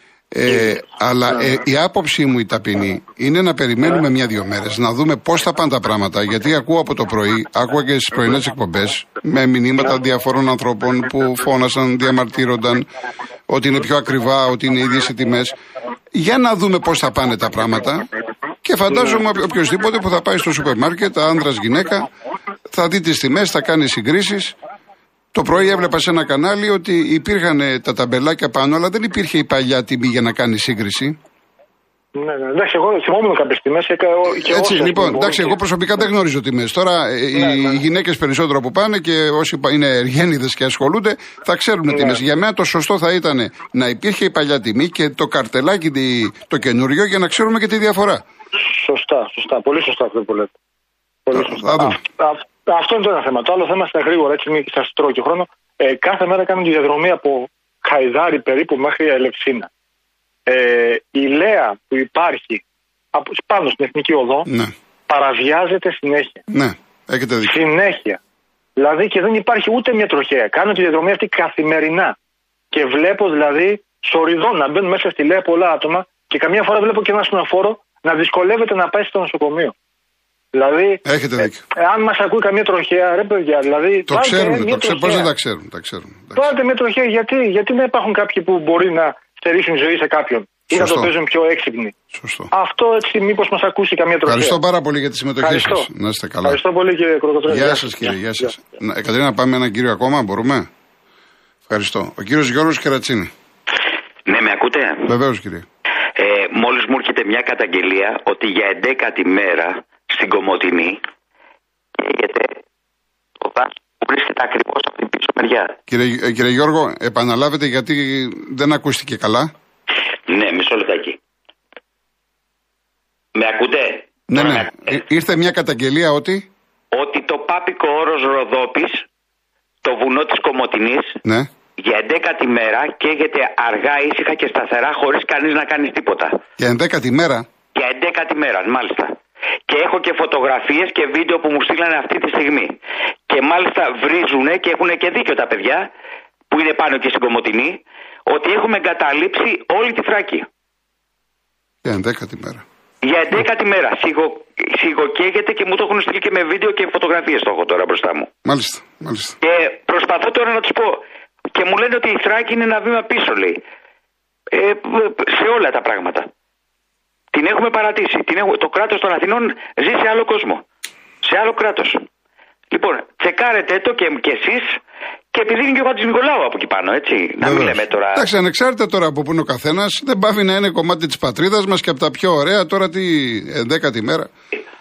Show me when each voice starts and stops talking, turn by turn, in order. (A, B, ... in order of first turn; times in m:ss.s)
0:00.3-0:12.9 A
0:13.5-0:15.5 A
0:16.1-0:18.1 A
0:18.6-0:22.1 A
0:22.7-0:24.6 A
0:25.3-0:31.2 A
0:32.1-0:35.6 B
0:34.4-0:48.2 A
0:37.3-0:37.7 B
0:41.9-0:42.2 B
0:48.6-0:50.5 B
0:51.2-0:59.7 B
0:51.3-0:52.0 A
1:00.4-1:02.6 B
1:03.1-1:04.5 B
1:04.5-1:04.7 A
1:05.1-1:06.4 B
1:06.5-1:07.5 A
1:07.4-1:08.2 B
1:08.8-1:12.2 B
1:12.7-1:19.7 B
1:20.5-1:25.3 B
1:21.0-1:21.6 A
1:24.1-1:26.5 A
1:26.3-1:31.9 B
1:30.7-1:31.1 A
1:32.1-1:32.5 A
1:32.5-1:34.6 B
1:34.2-1:36.6 A
1:35.4-1:35.9 B
1:36.4-1:38.5 B
1:37.5-1:40.7 A
1:41.7-1:43.3 A
1:44.2-1:45.1 C
1:45.0-1:45.6 A
1:46.2-1:51.0 C
1:52.0-1:52.4 C
1:53.4-1:55.7 C
1:55.9-1:59.5 A
2:00.3-2:01.2 C
2:03.3-2:03.9 C
2:04.3-2:06.5 A
2:06.9-2:09.0 C
2:09.8-2:11.1 C
2:11.2-2:11.5 A
2:11.8-2:16.4 C
2:16.6-2:17.4 A
2:17.7-2:19.1 C
2:19.7-2:22.7 C
2:23.3-2:25.9 C
2:26.5-2:30.5 C
2:31.8-2:32.6 A
2:33.0-2:38.3 C
2:38.4-2:39.4 A
2:39.4-2:41.0 C
2:41.5-2:43.6 C
2:44.5-2:46.3 C
2:47.3-2:50.6 C
2:51.2-2:52.0 C
2:52.7-2:54.7 C
2:55.3-2:58.2 C
2:57.4-3:04.3 A